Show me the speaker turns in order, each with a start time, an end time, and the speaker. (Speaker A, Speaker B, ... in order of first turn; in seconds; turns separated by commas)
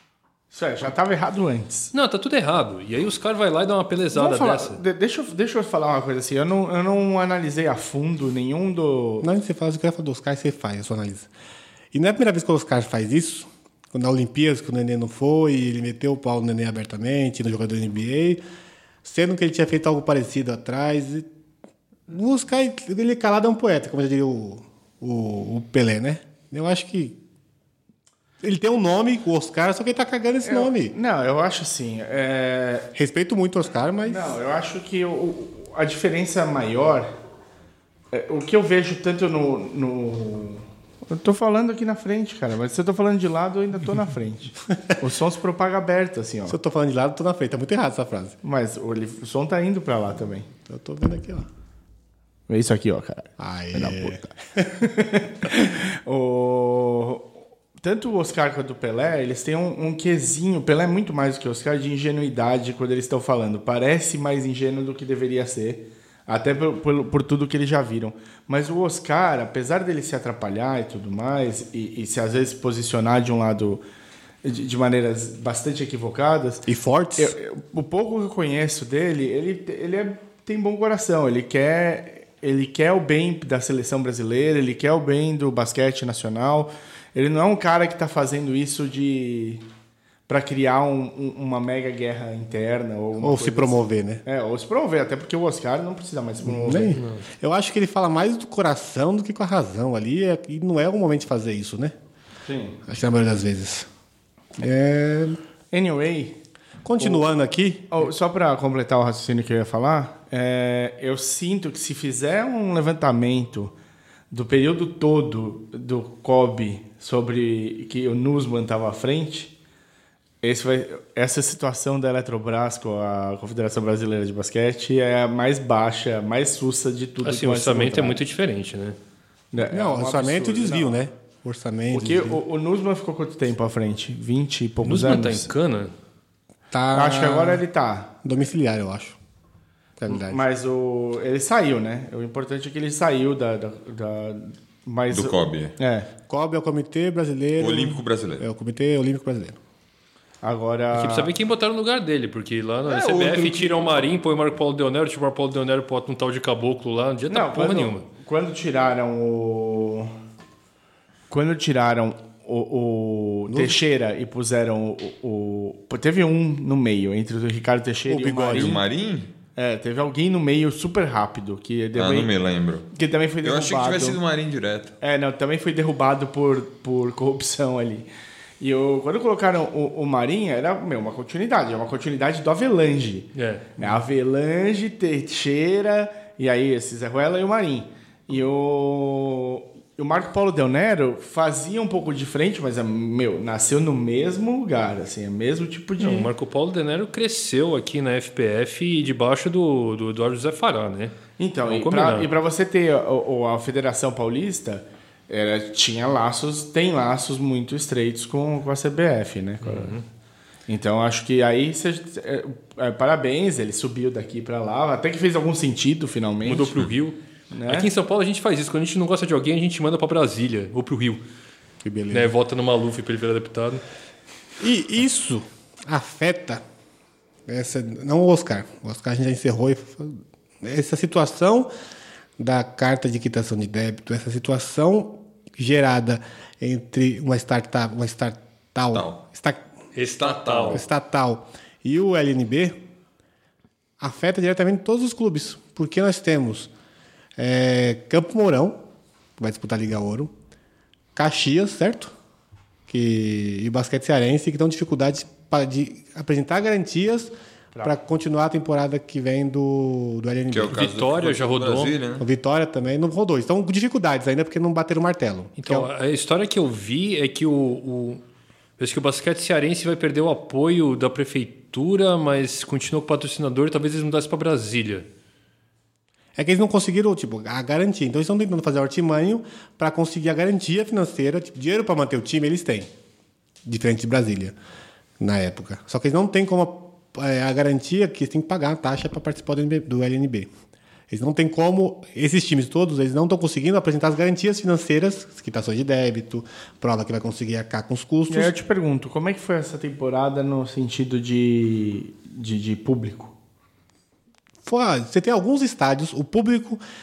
Speaker A: 0.5-1.9, Speaker B: 1.9-4.8, Speaker A: 4.1-9.3, Speaker C: 9.2-11.3, Speaker C: 11.9-18.4, Speaker C: 19.0-21.3, Speaker C: 22.1-27.2, Speaker C: 28.4-30.9, Speaker A: 30.4-32.9, Speaker C: 32.9-34.3, Speaker A: 34.0-37.1, Speaker A: 38.1-46.6, Speaker C: 46.5-48.4, Speaker A: 48.4-50.5, Speaker C: 50.6-51.5, Speaker A: 52.5-73.8, Speaker C: 53.4-54.8, Speaker A: 74.4-76.7, Speaker C: 76.7-77.3, Speaker A: 77.2-89.6, Speaker A: 90.3-97.0, Speaker C: 93.2-94.2, Speaker C: 96.4-101.9, Speaker B: 97.0-97.2, Speaker A: 102.4-102.8, Speaker C: 102.8-103.9, Speaker C: 104.6-105.4, Speaker A: 105.7-106.4, Speaker C: 106.8-107.9, Speaker A: 107.0-107.3, Speaker A: 107.9-113.7, Speaker A: 114.3-119.5, Speaker A: 120.4-128.2, Speaker B: 127.2-129.0, Speaker A: 129.5-131.0, Speaker C: 129.6-132.4, Speaker A: 131.9-135.5, Speaker B: 134.8-135.9, Speaker C: 136.7-137.6, Speaker A: 136.9-138.1, Speaker C: 138.2-139.2, Speaker C: 140.0-140.4, Speaker A: 140.1-146.1, Speaker D: 145.1-145.8, Speaker C: 146.3-149.6, Speaker D: 147.6-148.4, Speaker A: 150.4-151.3, Speaker B: 150.9-158.1, Speaker D: 152.8-153.9, Speaker A: 157.3-160.1, Speaker A: 161.3-168.8, Speaker C: 163.5-163.8, Speaker C: 168.1-168.8, Speaker D: 168.5-169.3, Speaker A: 169.6-172.3, Speaker D: 171.9-172.9, Speaker A: 172.9-174.2, Speaker D: 173.4-174.9, Speaker A: 175.0-178.1, Speaker A: 178.6-196.3, Speaker B: 183.3-183.7, Speaker B: 196.0-201.2, Speaker A: 201.4-209.9, Speaker B: 201.7-202.3, Speaker B: 209.6-210.0, Speaker A: 210.7-216.8, Speaker B: 216.4-221.2, Speaker A: 217.5-217.9, Speaker C: 221.8-222.3, Speaker B: 222.1-223.8, Speaker C: 224.6-226.6, Speaker C: 227.5-231.7, Speaker C: 232.4-239.6, Speaker D: 238.9-239.2, Speaker B: 239.9-240.8, Speaker D: 240.2-240.8, Speaker C: 240.7-242.8, Speaker C: 244.0-246.7, Speaker C: 247.4-248.8, Speaker C: 249.4-250.3, Speaker C: 251.1-252.1, Speaker C: 252.9-260.8, Speaker D: 260.5-262.2, Speaker B: 260.7-261.9, Speaker C: 262.2-265.9, Speaker B: 265.6-268.2, Speaker B: 268.8-275.1, Speaker C: 276.4-282.9, Speaker C: 283.6-284.5, Speaker C: 285.2-290.5, Speaker C: 291.1-298.5, Speaker A: 298.3-303.3, Speaker C: 304.6-306.8